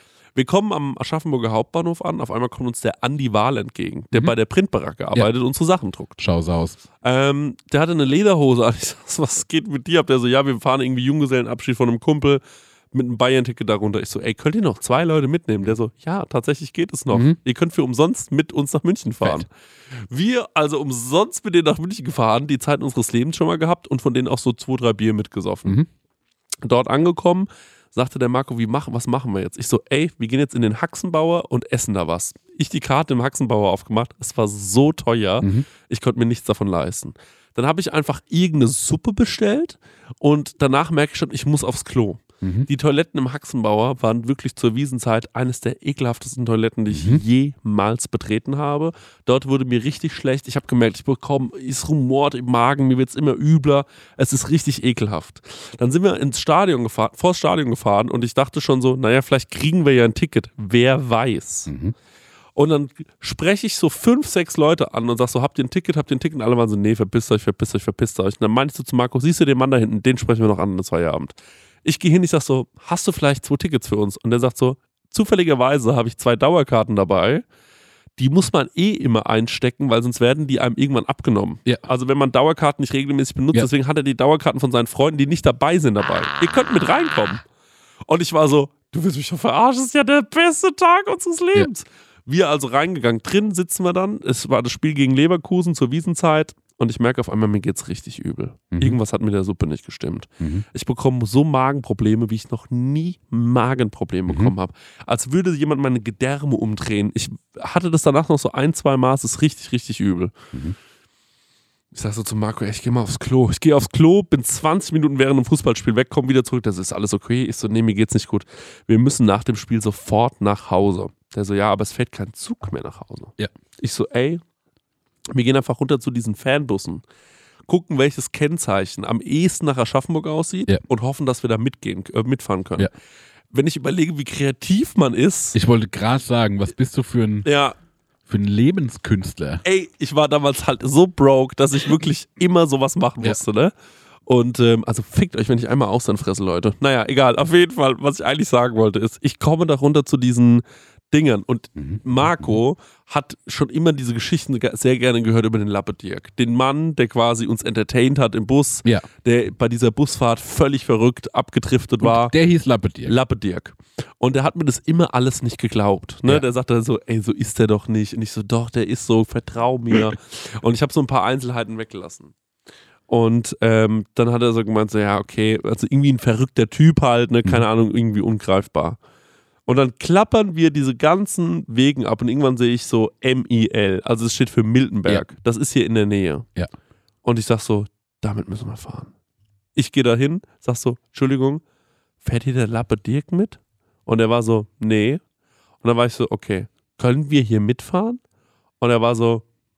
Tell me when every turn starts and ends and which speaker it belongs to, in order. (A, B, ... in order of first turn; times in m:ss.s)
0:00.4-0:06.2 A
0:06.2-0:06.8 B
0:07.0-0:25.8 A
0:17.1-0:17.4 B
0:26.6-1:01.7 A
0:35.4-0:35.7 B
0:42.4-0:42.7 B
0:46.9-0:47.2 B
1:01.7-1:01.9 B
1:02.6-1:17.4 A
1:18.2-1:27.4 A
1:28.1-1:50.4 A
1:38.7-1:39.0 B
1:44.3-1:44.6 B
1:51.9-2:04.4 A
2:05.3-2:07.0 A
2:07.7-2:12.9 A
2:13.5-2:15.6 A
2:15.5-2:17.5 B
2:17.4-2:17.8 A
2:18.3-2:19.6 B
2:19.6-2:23.7 A
2:24.3-2:42.4 A
2:31.8-2:32.5 B
2:42.0-2:43.1 B
2:43.0-2:52.3 A
2:53.1-2:59.0 A
2:59.7-3:06.5 A
3:07.2-3:09.1 A
3:09.8-3:11.6 A
3:12.2-3:15.2 A
3:15.8-3:18.2 A
3:18.8-3:19.4 A